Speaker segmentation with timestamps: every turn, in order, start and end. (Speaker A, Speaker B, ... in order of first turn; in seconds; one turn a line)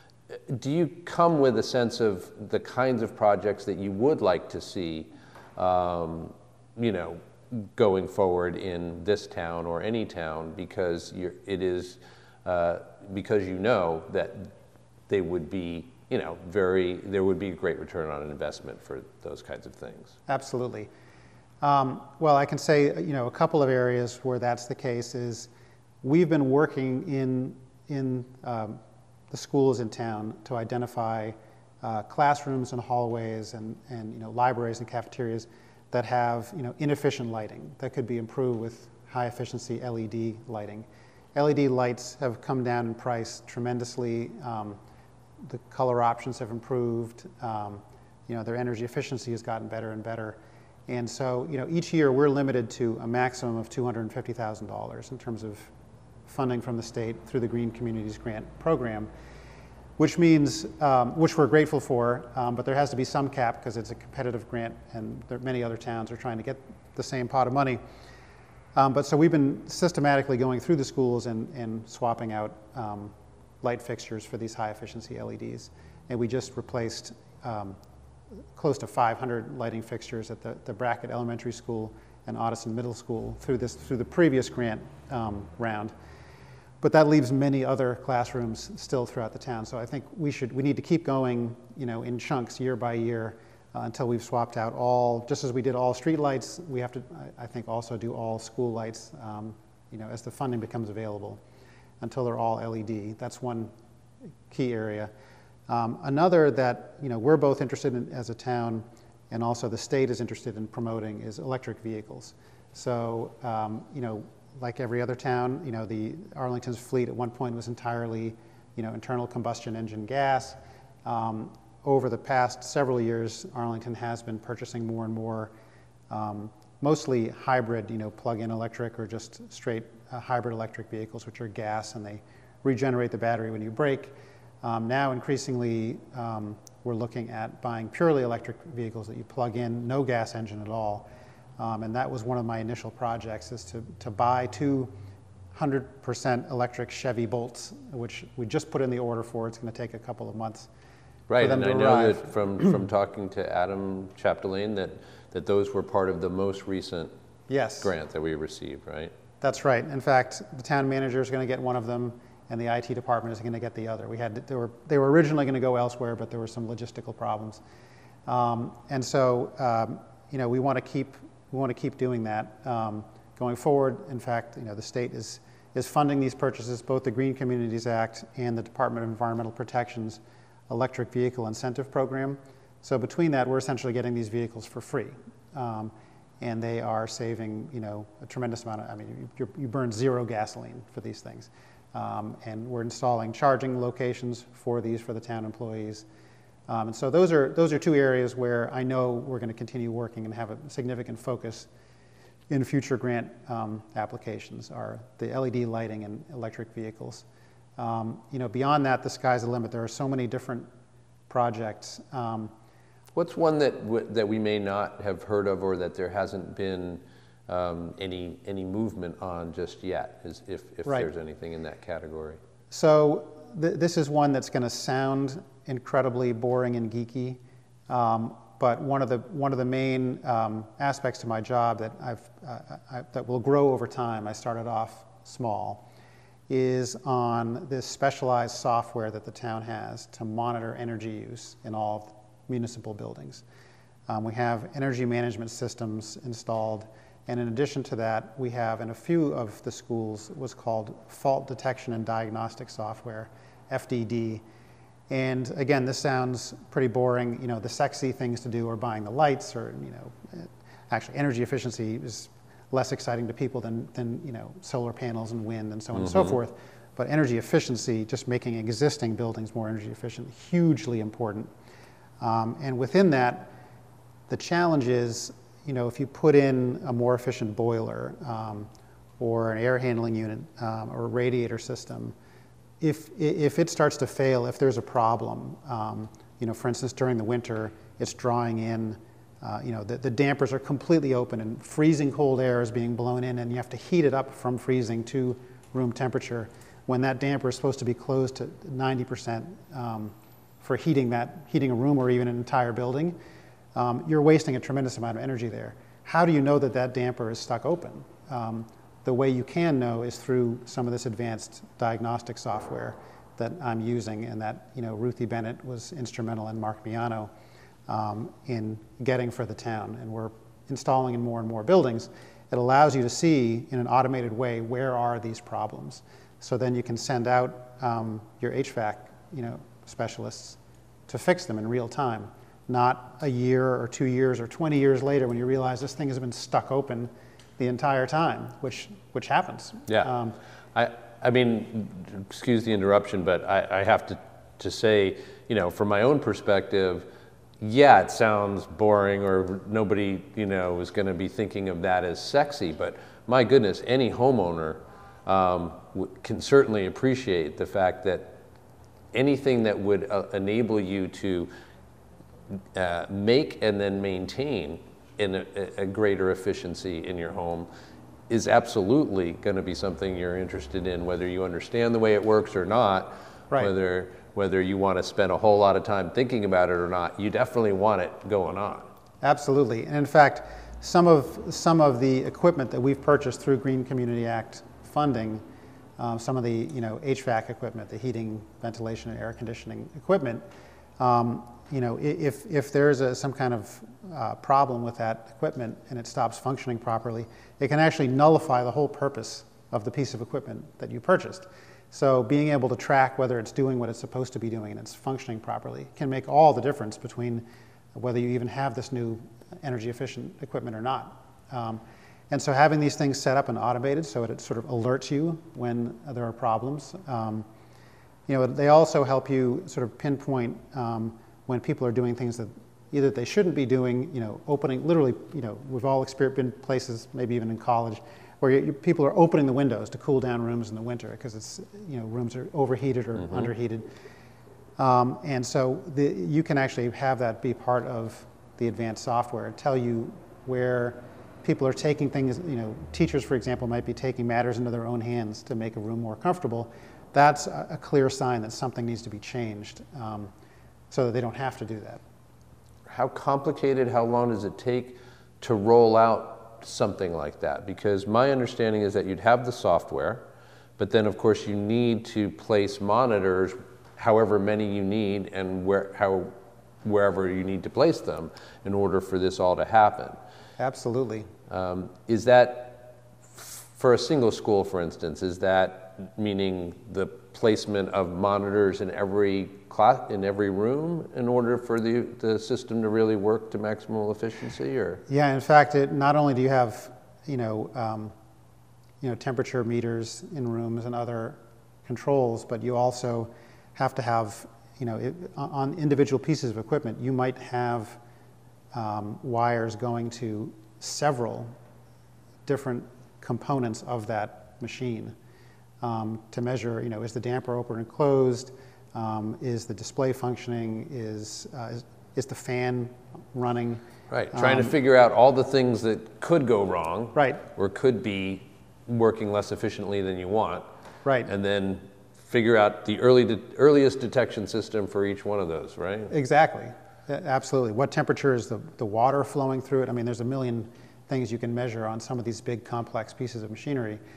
Speaker A: 0.3-14.5
Speaker A: 15.1-20.1
Speaker B: 20.3-20.9
Speaker B: 21.6-25.5
Speaker B: 26.0-28.8
Speaker B: 29.3-44.8
Speaker B: 45.4-55.7
Speaker B: 56.3-59.1
Speaker B: 60.0-67.8
Speaker B: 68.8-77.8
Speaker B: 78.5-85.9
Speaker B: 86.8-101.4
Speaker B: 102.0-103.7
Speaker B: 104.5-105.1
Speaker B: 105.7-125.5
Speaker B: 126.1-141.1
Speaker B: 141.6-144.9
Speaker B: 145.5-150.7
Speaker A: 151.3-157.1
Speaker B: 151.4-152.3
Speaker B: 157.5-157.9
Speaker A: 157.8-159.1
Speaker B: 159.4-167.6
Speaker B: 168.3-196.0
Speaker B: 196.7-201.7
Speaker B: 202.5-207.2
Speaker B: 207.8-210.7
Speaker B: 211.3-212.5
Speaker A: 213.1-222.4
Speaker B: 222.7-235.8
Speaker B: 236.5-243.4
Speaker B: 244.1-254.4
Speaker B: 255.1-271.5
Speaker A: 266.1-266.4
Speaker B: 272.2-273.5
Speaker B: 274.3-278.7
Speaker B: 279.2-282.1
Speaker B: 282.8-303.2
Speaker B: 303.8-317.3
Speaker B: 317.9-340.4
Speaker A: 340.8-347.1
Speaker A: 347.6-358.3
Speaker A: 359.1-361.5
Speaker A: 362.7-367.7
Speaker A: 368.3-378.9
Speaker B: 379.2-385.4
Speaker B: 386.0-390.4
Speaker B: 391.0-417.5
Speaker B: 418.3-433.9
Speaker B: 434.8-450.3
Speaker B: 450.9-452.0
Speaker A: 452.9-460.2
Speaker A: 460.8-470.2
Speaker B: 470.6-471.3
Speaker A: 471.5-485.0
Speaker B: 485.1-488.1
Speaker B: 489.0-498.0
Speaker B: 498.7-501.5
Speaker B: 502.5-505.1
Speaker B: 505.8-514.7
Speaker A: 514.1-520.6
Speaker B: 517.1-517.4
Speaker B: 521.0-521.3
Speaker A: 521.2-526.1
Speaker B: 526.1-534.0